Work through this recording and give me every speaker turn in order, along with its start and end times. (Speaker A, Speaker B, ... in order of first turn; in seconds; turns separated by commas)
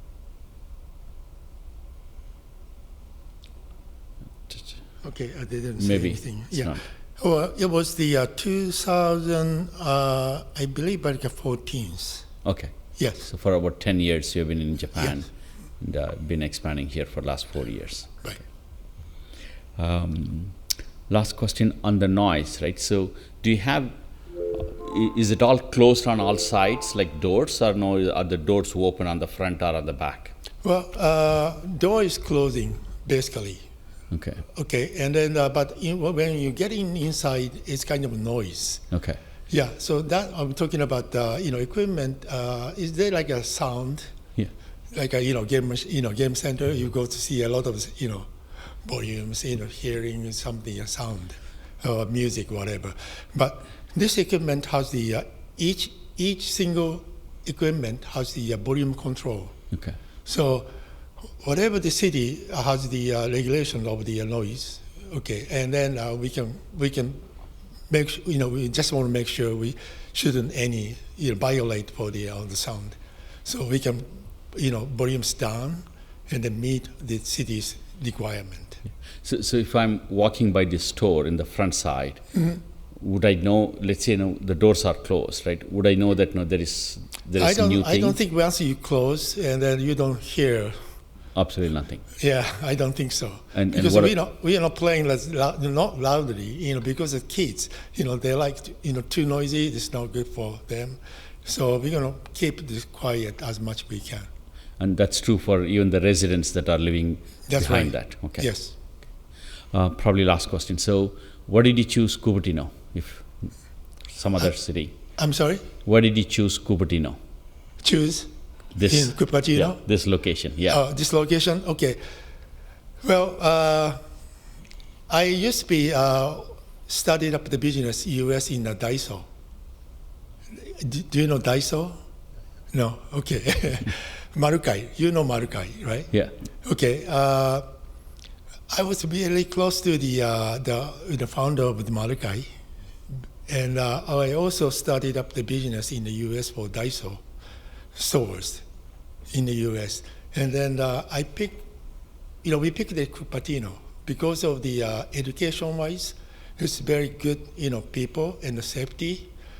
Speaker A: 4.5-4.8, Speaker B: 5.0-12.2, Speaker A: 5.8-6.8, Speaker A: 12.4-12.7, Speaker B: 13.0-13.3, Speaker A: 13.2-15.3, Speaker A: 15.8-18.2, Speaker A: 19.8-20.5, Speaker A: 21.1-23.9, Speaker A: 24.5-30.3, Speaker B: 30.6-33.6, Speaker A: 34.1-34.4, Speaker B: 34.5-38.8, Speaker A: 38.9-39.2, Speaker B: 39.5-44.1, Speaker B: 44.9-48.3, Speaker B: 48.8-59.5, Speaker A: 59.7-60.0, Speaker B: 60.2-60.7, Speaker B: 61.4-67.2, Speaker B: 67.9-78.8, Speaker A: 79.2-82.2, Speaker B: 82.3-82.6, Speaker A: 83.0-88.2, Speaker B: 87.4-90.7, Speaker A: 91.3-92.0, Speaker B: 92.2-104.3, Speaker A: 93.5-94.1, Speaker A: 104.8-108.5, Speaker B: 107.5-108.7, Speaker A: 109.7-113.2, Speaker A: 114.1-114.9, Speaker B: 115.2-115.6, Speaker A: 115.8-117.2, Speaker B: 117.8-118.3, Speaker A: 118.8-120.8, Speaker B: 118.8-119.8, Speaker B: 120.7-122.0, Speaker B: 123.0-124.0, Speaker B: 125.1-129.2, Speaker B: 130.7-131.9, Speaker B: 132.7-136.1, Speaker B: 136.6-137.7, Speaker B: 138.7-142.5, Speaker B: 143.5-147.2, Speaker B: 147.9-148.6, Speaker B: 149.3-151.6, Speaker B: 152.4-159.3